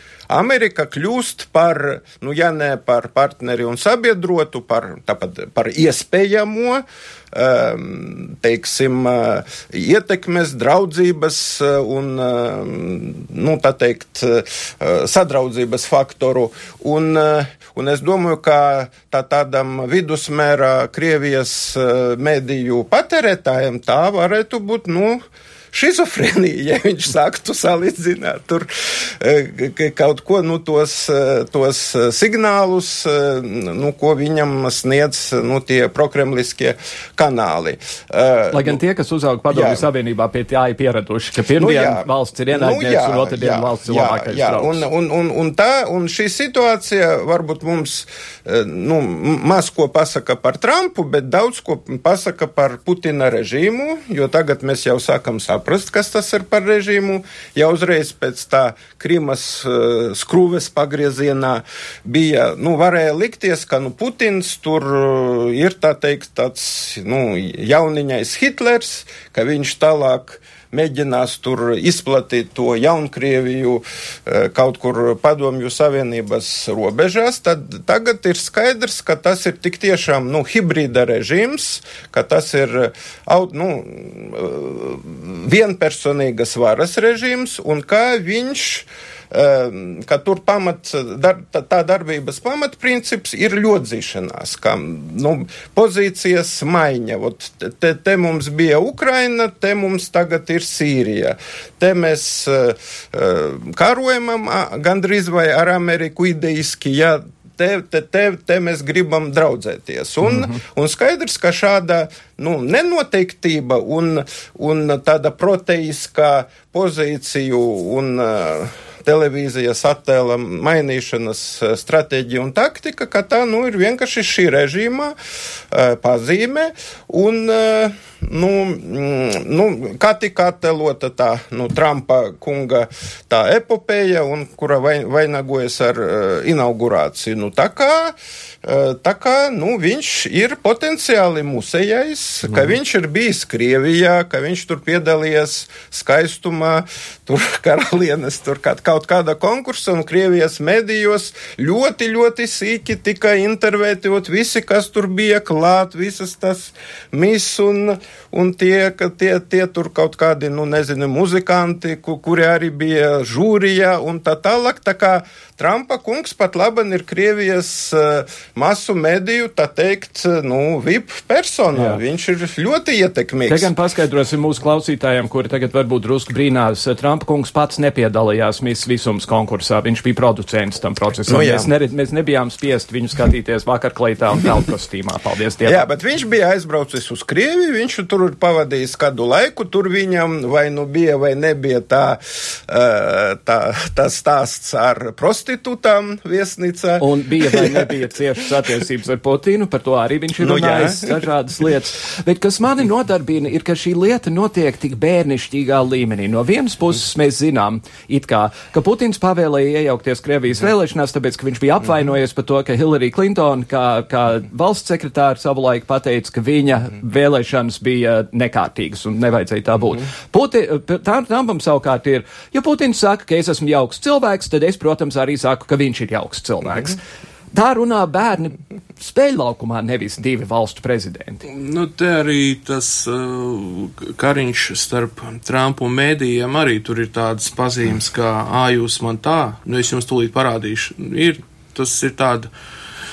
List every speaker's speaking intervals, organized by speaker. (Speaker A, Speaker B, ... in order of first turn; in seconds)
Speaker A: 0.3-38.8, 39.5-39.9, 41.6-125.2, 125.7-173.7, 181.3-181.7, 185.7-198.0, 200.4-201.3
Speaker B: 38.5-44.8, 110.3-110.6, 171.8-172.0, 173.5-185.8, 197.0-227.0, 227.5-231.4
Speaker C: 231.5-242.5